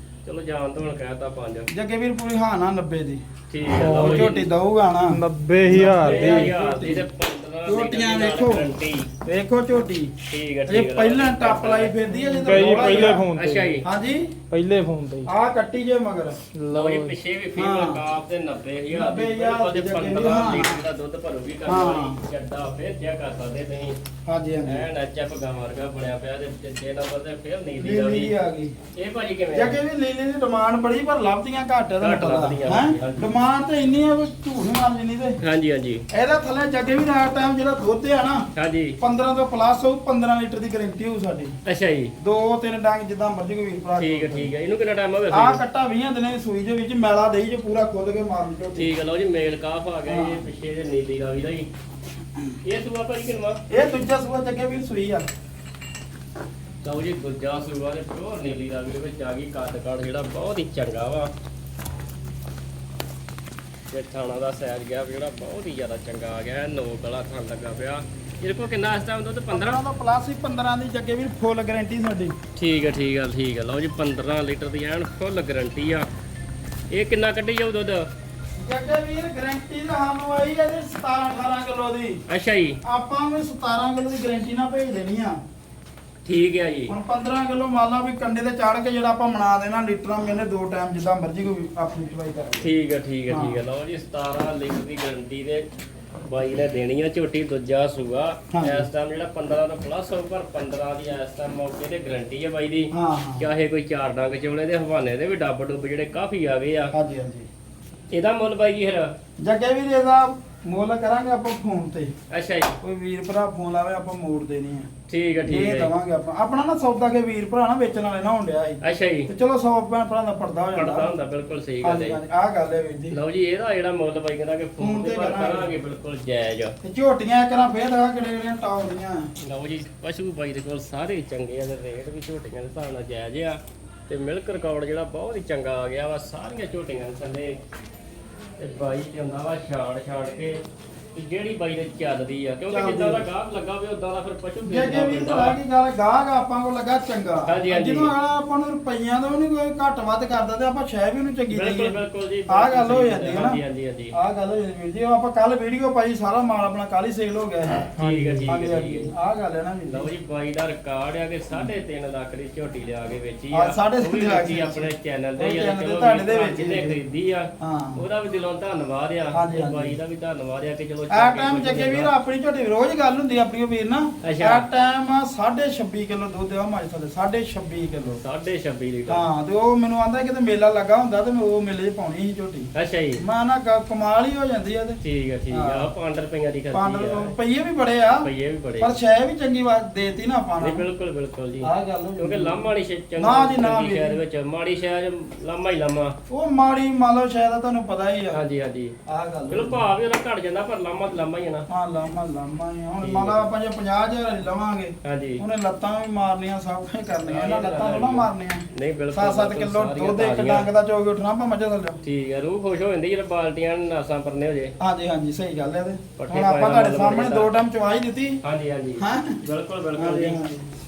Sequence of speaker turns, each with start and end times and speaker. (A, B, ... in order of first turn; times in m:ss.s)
0:00.2-0:01.7 A
0:01.7-0:03.2 B
0:03.5-0:04.5 A
0:03.8-0:04.3 C
0:03.9-0:07.0 B
0:05.1-0:06.5 C
0:05.7-0:09.1 A
0:07.6-0:08.7 B
0:09.2-0:10.1 B
0:10.3-0:11.9 A
0:10.6-0:13.3 B
0:12.1-0:13.8 C
0:12.5-0:13.8 A
0:13.8-0:14.3 B
0:14.5-0:15.3 C
0:15.2-0:16.4 B
0:16.5-0:17.1 C
0:16.7-0:24.0 A
0:17.6-0:18.0 B
0:18.9-0:20.8 B
0:21.6-0:22.2 B
0:24.2-0:24.9 B
0:24.6-0:28.3 A
0:27.8-0:28.7 B
0:28.9-0:29.8 A
0:29.5-0:35.4 B
0:32.0-0:33.2 A
0:35.4-0:36.0 A
0:36.1-0:38.5 B
0:38.5-0:39.0 A
0:39.0-0:41.5 B
0:41.6-0:42.1 A
0:42.2-0:44.5 B
0:44.0-0:45.6 A
0:45.3-0:48.9 B
0:48.8-0:51.7 A
0:50.0-0:50.4 B
0:52.6-0:53.6 A
0:53.7-0:55.2 B
0:56.8-1:01.3 A
1:03.9-1:09.8 A
1:09.5-1:12.3 B
1:12.6-1:16.1 A
1:16.9-1:18.1 A
1:18.6-1:22.2 B
1:22.3-1:22.8 A
1:22.8-1:25.4 B
1:26.2-1:26.9 A
1:26.9-1:32.7 B
1:32.6-1:35.7 A
1:33.3-1:33.6 B
1:36.2-1:46.9 A
1:38.5-1:38.9 B
1:42.9-1:43.5 B
1:46.9-1:47.5 B
1:48.1-1:49.1 A
1:49.4-1:52.1 B
1:52.3-1:52.8 A
1:52.8-1:54.9 B
1:55.1-1:55.9 A
1:55.5-2:01.1 B
1:58.8-1:59.3 A
2:00.7-2:02.2 A
2:01.8-2:03.2 B
2:03.1-2:06.7 A
2:04.8-2:05.7 B
2:06.8-2:09.3 B
2:09.4-2:17.6 A
2:18.6-2:20.6 A
2:21.1-2:25.6 A
2:22.7-2:23.3 B
2:24.6-2:33.6 B
2:27.4-2:28.1 A
2:31.5-2:34.1 A
2:34.1-2:37.9 B
2:37.9-2:39.1 A
2:38.0-2:38.5 C
2:38.5-2:40.1 B
2:39.9-2:52.1 A
2:43.5-2:47.0 B
2:47.6-2:48.0 B
2:49.3-2:50.0 B
2:51.1-2:58.2 B
2:54.2-2:54.6 A
2:58.2-2:59.2 A
2:59.1-3:05.0 B
3:02.7-3:03.2 A
3:05.0-3:07.3 A
3:05.5-3:05.9 B
3:06.7-3:08.3 B
3:08.2-3:08.9 A
3:08.8-3:10.9 B
3:10.6-3:16.1 A
3:11.6-3:12.6 B
3:13.2-3:14.2 B
3:16.3-3:18.4 B
3:18.3-3:18.9 A
3:19.1-3:19.8 B
3:19.5-3:21.6 A
3:21.7-3:32.0 B
3:23.0-3:23.5 A
3:25.0-3:25.4 A
3:27.2-3:30.7 A
3:32.0-3:34.7 A
3:34.8-3:38.4 B
3:36.2-3:37.5 A
3:38.4-3:40.4 A
3:39.0-3:39.4 B
3:40.0-3:40.6 B